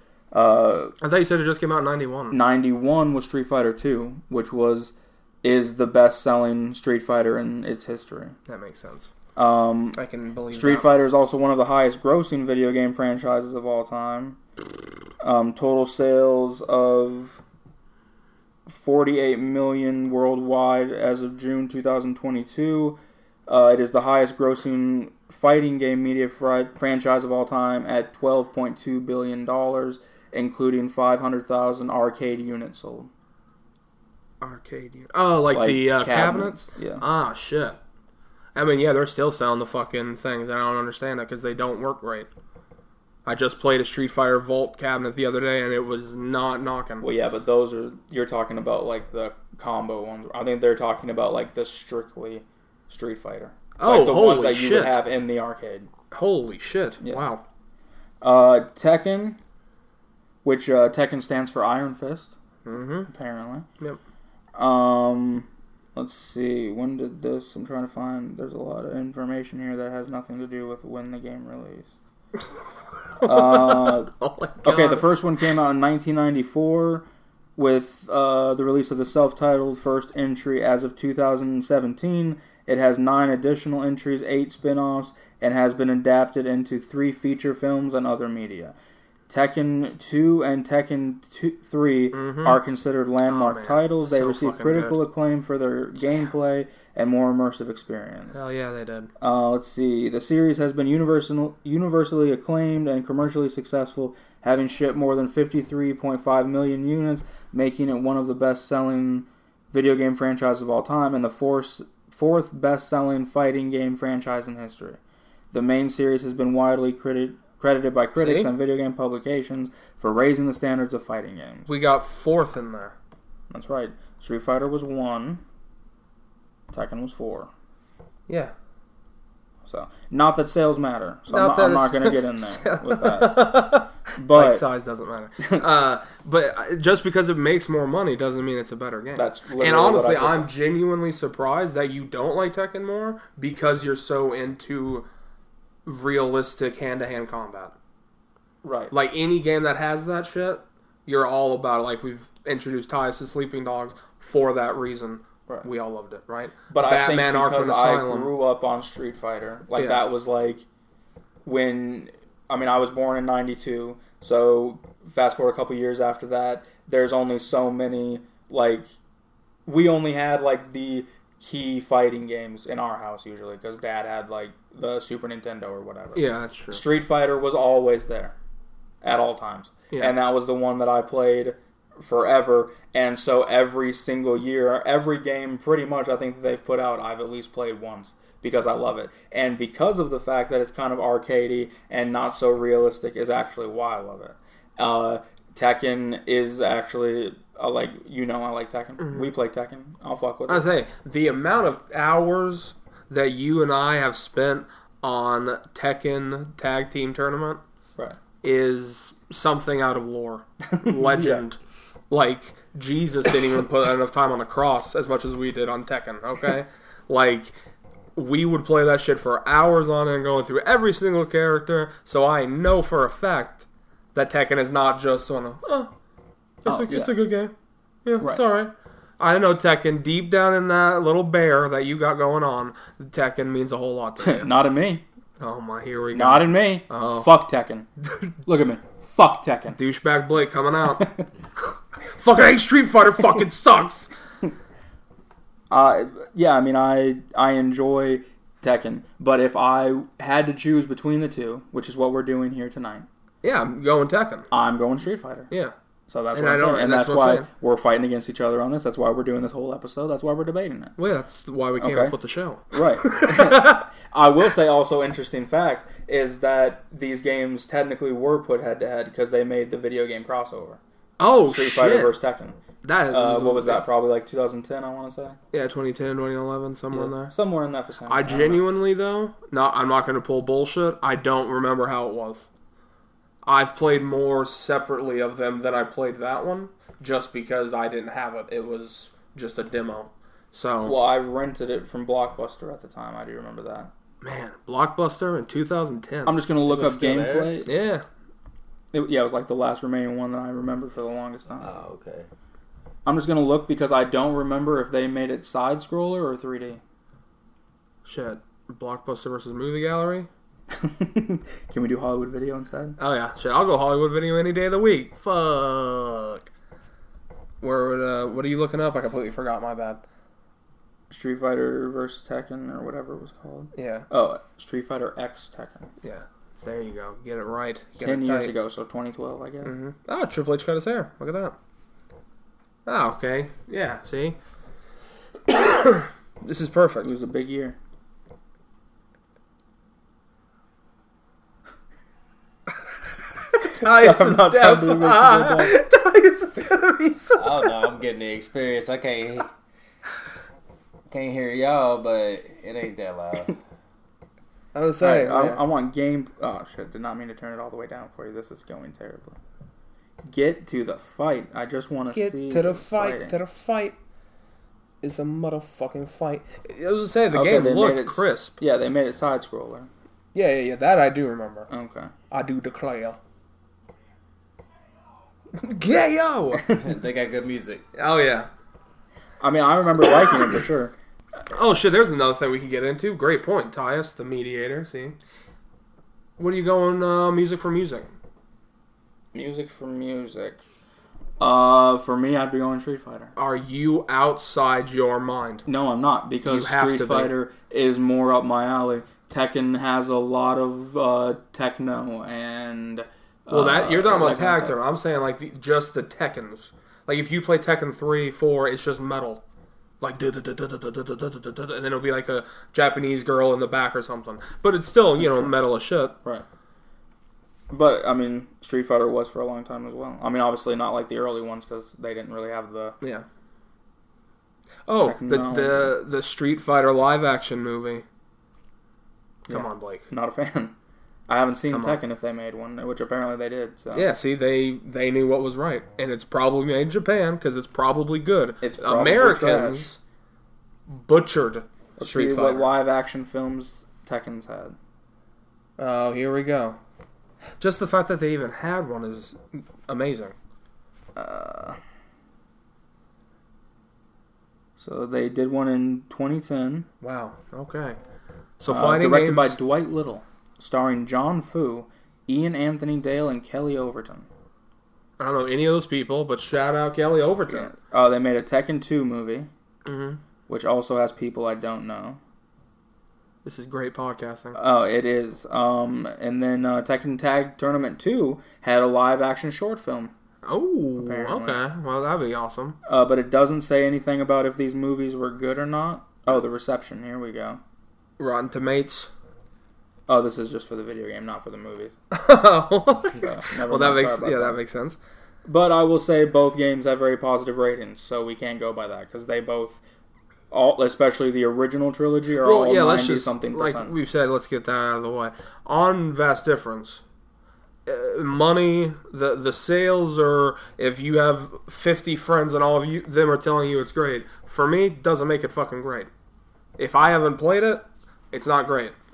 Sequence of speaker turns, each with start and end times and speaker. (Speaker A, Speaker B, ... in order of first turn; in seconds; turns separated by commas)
Speaker A: 0.3-0.9, Speaker B: 1.0-2.4, Speaker A: 2.3-8.3, Speaker B: 8.4-9.1, Speaker A: 9.3-14.4, Speaker B: 9.9-10.9, Speaker A: 15.2-17.4, Speaker A: 18.7-33.1, Speaker B: 34.4-37.8, Speaker A: 35.5-37.0, Speaker B: 38.5-42.3, Speaker B: 43.2-47.0, Speaker A: 47.0-55.9, Speaker B: 53.8-55.0, Speaker B: 56.1-57.4, Speaker A: 58.2-59.4, Speaker A: 60.4-62.4, Speaker B: 62.6-63.1, Speaker A: 63.0-63.7, Speaker A: 64.5-71.9, Speaker B: 73.2-75.1, Speaker A: 73.2-74.1, Speaker A: 74.6-77.0, Speaker A: 77.5-88.7, Speaker A: 89.3-98.4, Speaker B: 92.1-92.6, Speaker B: 93.3-95.0, Speaker B: 98.3-99.1, Speaker A: 99.2-115.0, Speaker A: 115.5-121.7, Speaker B: 118.2-118.5, Speaker B: 121.7-123.0, Speaker A: 123.5-125.4, Speaker A: 126.7-127.5, Speaker B: 128.3-128.5, Speaker A: 129.7-133.5, Speaker B: 131.3-145.1, Speaker A: 134.2-134.6, Speaker A: 139.1-140.5, Speaker B: 145.8-147.7, Speaker A: 148.6-148.9, Speaker B: 148.9-158.3, Speaker A: 156.7-160.6, Speaker B: 159.8-160.0, Speaker A: 161.4-168.9, Speaker A: 169.7-178.3, Speaker B: 176.1-176.8, Speaker A: 179.0-200.7, Speaker B: 199.0-199.3, Speaker B: 200.5-207.6, Speaker B: 208.4-211.6, Speaker A: 210.7-211.4, Speaker B: 212.1-217.5, Speaker B: 218.1-225.9, Speaker B: 226.6-227.5, Speaker A: 226.7-227.2, Speaker B: 228.0-234.5, Speaker A: 234.2-235.0, Speaker B: 235.4-237.3, Speaker A: 236.1-237.9, Speaker A: 238.4-239.8, Speaker B: 239.8-241.1, Speaker A: 240.9-241.3, Speaker B: 242.0-244.1, Speaker A: 245.7-253.1, Speaker B: 253.4-254.5, Speaker A: 254.5-255.5, Speaker A: 256.1-260.9, Speaker B: 256.3-257.5, Speaker B: 261.0-263.9, Speaker A: 261.8-262.1, Speaker A: 262.7-270.8, Speaker B: 271.2-272.1, Speaker A: 271.5-272.6, Speaker B: 272.8-273.9, Speaker A: 273.1-275.4, Speaker B: 275.5-277.3, Speaker A: 276.9-278.6, Speaker B: 278.1-282.5, Speaker B: 283.4-291.0, Speaker A: 290.8-293.9, Speaker B: 294.2-296.4, Speaker A: 296.2-297.7, Speaker C: 296.7-297.6, Speaker B: 297.6-298.0, Speaker A: 298.9-301.8, Speaker C: 301.6-302.3, Speaker A: 303.1-306.8, Speaker B: 308.0-310.3, Speaker A: 310.7-313.0, Speaker B: 313.0-316.5, Speaker B: 317.6-320.0, Speaker A: 321.1-325.9, Speaker B: 323.7-324.1, Speaker B: 326.0-328.5, Speaker A: 328.0-329.8, Speaker B: 329.6-331.6, Speaker B: 332.9-334.4, Speaker B: 335.5-337.1, Speaker A: 337.0-337.8, Speaker B: 343.5-347.7, Speaker A: 343.9-345.8, Speaker C: 347.4-349.5, Speaker C: 351.1-353.6, Speaker B: 354.7-355.6, Speaker A: 355.0-359.4, Speaker A: 360.3-363.4, Speaker B: 362.1-363.9, Speaker B: 365.0-368.6, Speaker A: 367.3-369.9, Speaker B: 370.3-371.7, Speaker A: 371.7-372.1, Speaker B: 372.3-373.2, Speaker B: 375.5-376.6, Speaker A: 376.5-376.8, Speaker C: 376.7-377.8, Speaker B: 377.9-378.5, Speaker A: 379.4-380.9, Speaker B: 380.3-380.5, Speaker B: 381.5-385.2, Speaker B: 386.4-388.1, Speaker A: 389.3-390.6, Speaker A: 391.4-393.3, Speaker B: 393.4-395.6, Speaker A: 395.6-404.8, Speaker B: 396.4-397.3, Speaker B: 403.5-409.4, Speaker B: 410.0-416.2, Speaker A: 415.2-415.6, Speaker A: 417.7-423.0, Speaker B: 423.0-423.2, Speaker B: 424.9-428.0, Speaker A: 425.0-425.9, Speaker B: 429.5-430.1, Speaker A: 429.5-430.7, Speaker A: 431.3-434.1, Speaker B: 431.7-432.0, Speaker B: 433.9-440.0, Speaker A: 438.6-439.9, Speaker B: 440.9-442.7, Speaker A: 442.0-444.8, Speaker B: 445.8-446.8, Speaker B: 447.6-450.3, Speaker A: 451.1-451.8, Speaker A: 454.8-456.9, Speaker B: 457.0-458.0, Speaker B: 458.6-459.6, Speaker A: 458.7-464.3, Speaker B: 465.2-467.7, Speaker A: 467.5-469.5, Speaker B: 469.8-470.2, Speaker A: 470.5-472.2, Speaker B: 473.4-474.6, Speaker A: 474.5-480.1, Speaker B: 480.4-482.8, Speaker A: 481.0-481.6, Speaker A: 482.9-487.6, Speaker B: 488.2-489.1, Speaker A: 490.1-491.9, Speaker B: 492.1-495.0, Speaker A: 493.2-494.6, Speaker A: 495.4-499.8, Speaker A: 500.5-503.9, Speaker B: 502.4-507.0, Speaker B: 507.9-516.1, Speaker B: 516.8-519.0